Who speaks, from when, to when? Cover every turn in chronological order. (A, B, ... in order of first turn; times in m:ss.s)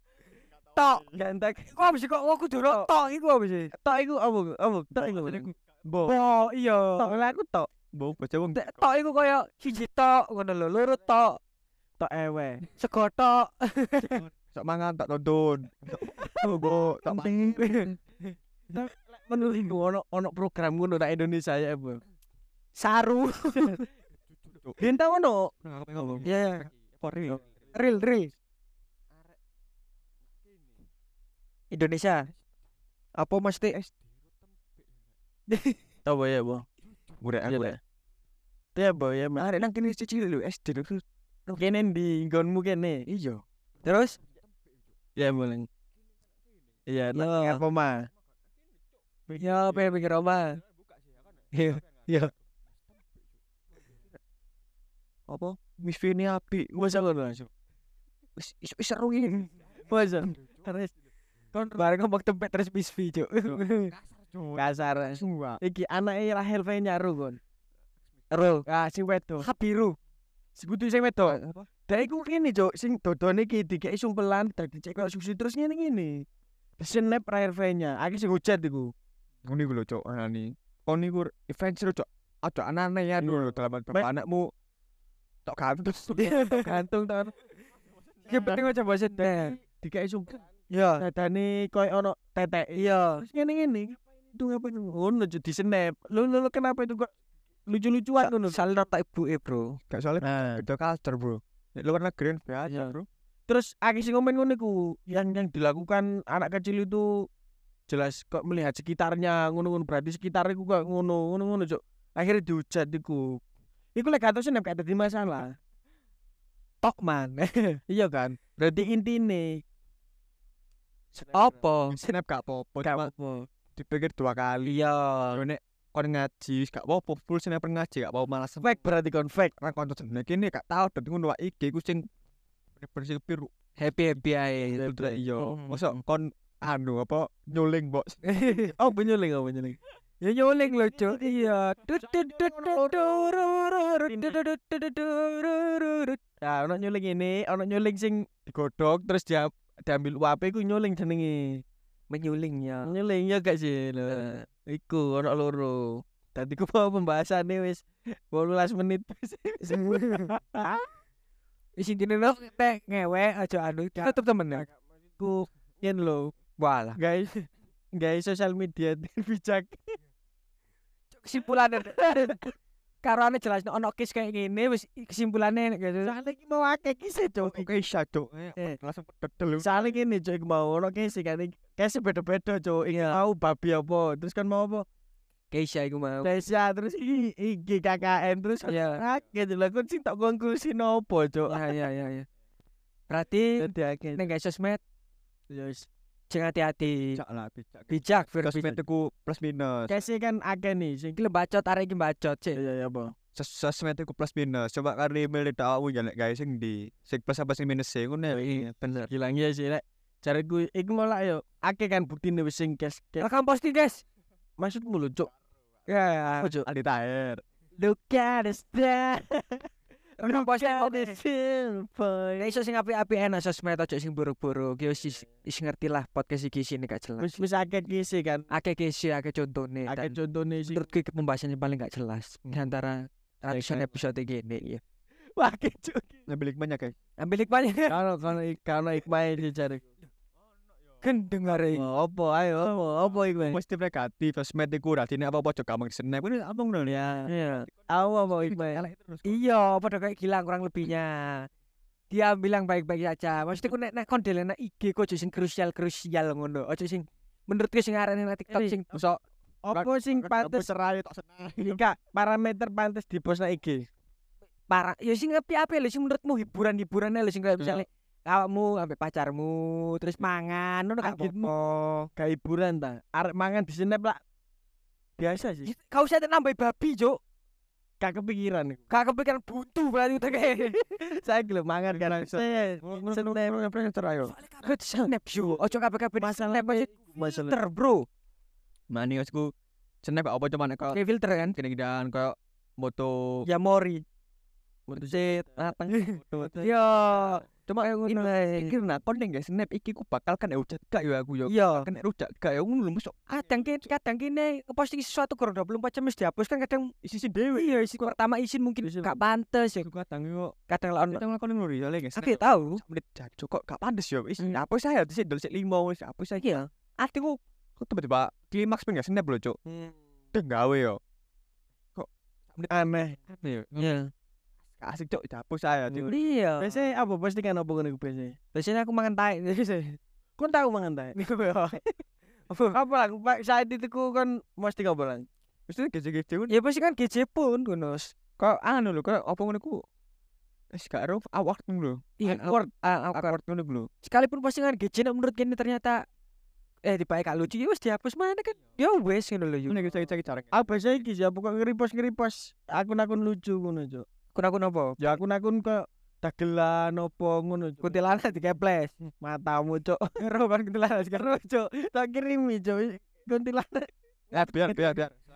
0:00.8-0:01.1 A
0:01.1-0:01.9 B
0:01.8-0:03.7 A
0:03.7-0:05.5 B
0:05.2-0:06.2 C
0:06.0-0:07.1 A
0:07.0-0:07.7 B
0:07.9-0:08.6 C
0:08.5-0:11.4 A
0:12.0-0:12.6 B
0:12.8-0:14.3 A
0:14.3-0:17.7 C
0:16.2-0:16.8 B
0:17.1-0:18.0 A
0:18.7-0:22.0 B
0:22.8-0:23.8 A
0:24.3-0:24.8 C
0:24.8-0:25.5 B
0:25.6-0:27.4 C
0:26.2-0:26.7 A
0:27.7-0:28.3 A
0:31.7-0:32.3 A
0:33.2-0:33.8 A
0:35.5-0:35.8 A
0:36.0-0:36.6 B
0:37.2-0:37.8 C
0:37.5-0:37.8 B
0:38.8-0:39.4 B
0:39.4-0:41.6 C
0:41.6-0:43.0 B
0:43.1-0:43.4 C
0:43.8-0:44.2 A
0:45.2-0:45.7 B
0:46.9-0:48.1 B
0:47.1-0:47.6 A
0:49.3-0:49.7 B
0:49.4-0:50.6 A
0:51.5-0:52.3 A
0:55.3-0:57.0 C
0:56.8-0:57.5 B
0:58.4-0:59.5 C
0:59.9-1:00.9 B
1:01.6-1:03.9 A
1:03.5-1:04.6 C
1:04.6-1:07.4 B
1:05.2-1:05.6 C
1:08.3-1:08.6 A
1:08.7-1:09.5 B
1:09.4-1:10.0 A
1:10.6-1:16.2 B
1:11.2-1:11.7 C
1:16.8-1:18.9 B
1:19.4-1:24.5 C
1:25.5-1:26.4 C
1:26.2-1:26.7 A
1:26.5-1:27.3 B
1:28.3-1:28.6 C
1:28.3-1:29.6 A
1:29.2-1:30.4 B
1:30.7-1:31.0 A
1:31.0-1:37.1 B
1:32.8-1:33.2 A
1:37.7-1:38.6 B
1:38.2-1:39.8 A
1:39.9-1:43.1 C
1:40.2-1:40.6 B
1:42.7-1:42.9 B
1:43.5-1:47.3 B
1:47.9-1:53.4 B
1:54.0-1:55.5 B
1:56.8-1:57.8 A
1:57.9-1:59.6 B
2:01.2-2:01.5 B
2:01.2-2:02.0 A
2:01.9-2:03.1 C
2:02.8-2:03.4 B
2:03.8-2:04.8 C
2:04.7-2:05.4 A
2:05.3-2:08.8 C
2:08.6-2:09.5 B
2:09.6-2:12.0 C
2:12.8-2:13.5 C
2:13.8-2:15.8 A
2:14.8-2:18.3 C
2:14.8-2:15.2 B
2:18.2-2:18.8 A
2:18.7-2:19.8 B
2:20.2-2:26.2 A
2:22.0-2:23.4 B
2:24.1-2:24.4 B
2:26.4-2:31.6 B
2:32.1-2:32.9 A
2:32.8-2:40.9 B
2:34.1-2:34.4 A
2:39.7-2:40.4 A
2:41.8-2:44.7 A
2:44.0-2:44.6 B
2:45.2-2:46.3 B
2:46.6-2:47.0 A
2:47.0-2:50.0 B
2:51.1-2:52.1 A
2:51.8-2:52.5 B
2:53.0-2:56.1 A
2:56.0-2:57.7 B
2:57.4-2:59.8 C
2:59.6-3:04.9 B
3:05.5-3:06.3 A
3:06.2-3:11.8 B
3:08.6-3:09.0 A
3:11.5-3:12.3 A
3:13.1-3:14.8 A
3:13.6-3:14.2 B
3:15.5-3:15.9 B
3:16.3-3:17.2 A
3:17.2-3:20.0 C
3:17.9-3:18.8 A
3:19.9-3:21.2 B
3:21.2-3:22.6 A
3:22.5-3:23.1 B
3:23.4-3:28.8 C
3:28.3-3:29.1 A
3:29.1-3:33.3 B
3:33.2-3:34.0 A
3:34.6-3:35.3 B
3:35.9-3:36.5 A
3:36.4-3:36.7 B
3:36.6-3:37.4 C
3:37.8-3:39.7 B
3:40.2-3:42.6 B
3:40.2-3:41.2 A
3:42.4-3:47.3 A
3:47.2-3:48.5 B
3:48.5-3:50.2 A
3:49.9-3:50.9 B
3:50.7-3:54.8 A
3:53.5-3:53.9 B
3:55.4-3:56.2 B
3:56.3-3:57.0 C
3:57.2-3:58.0 A
3:57.9-3:59.8 B
4:01.0-4:01.8 A
4:01.7-4:03.6 B
4:03.5-4:07.1 C
4:06.9-4:08.8 B
4:07.3-4:07.6 A
4:08.4-4:09.4 C
4:09.2-4:11.5 A
4:12.1-4:18.9 A
4:18.5-4:18.8 B
4:18.9-4:19.2 C
4:19.7-4:20.7 B
4:19.7-4:21.8 C
4:21.6-4:23.8 B
4:24.7-4:32.1 A
4:31.0-4:31.5 B
4:32.2-4:34.2 B
4:35.2-4:35.7 B
4:35.7-4:37.2 A
4:38.0-4:38.8 B
4:38.9-4:40.9 A
4:41.0-4:43.5 B
4:41.9-4:44.3 C
4:44.2-4:48.1 A
4:46.2-4:47.6 B
4:48.9-4:51.0 C
4:50.9-4:51.6 A
4:51.5-4:53.5 C
4:53.5-4:54.0 A
4:54.9-5:03.3 C
4:54.9-4:55.5 B
4:56.5-4:58.7 A
5:01.5-5:01.9 A
5:03.3-5:06.9 A
5:07.0-5:07.9 C
5:07.6-5:09.9 A
5:08.8-5:09.1 B
5:09.8-5:10.6 C
5:10.7-5:11.2 A
5:11.1-5:19.6 C
5:12.2-5:12.8 A
5:16.4-5:16.7 A
5:20.3-5:21.0 C
5:22.0-5:22.7 C
5:22.7-5:23.2 B
5:23.3-5:23.9 C
5:23.8-5:24.1 A
5:24.8-5:26.1 C
5:25.9-5:28.4 B
5:26.1-5:26.7 A
5:28.5-5:30.0 A
5:30.4-5:31.2 B
5:31.2-5:31.8 A
5:32.5-5:32.8 A
5:32.7-5:35.3 B
5:35.7-5:36.6 C
5:36.5-5:38.1 A
5:38.4-5:39.8 C
5:40.7-5:42.1 C
5:42.2-5:43.4 A
5:42.2-5:42.7 B
5:43.1-5:43.9 C
5:44.0-5:46.0 A
5:46.9-5:49.8 A
5:49.7-5:50.6 C
5:50.5-5:54.1 B
5:54.3-5:55.2 A
5:55.0-5:58.0 B
5:57.8-5:58.9 A
5:59.2-6:00.2 B
6:00.2-6:01.6 A
6:01.6-6:04.8 B
6:04.3-6:05.2 C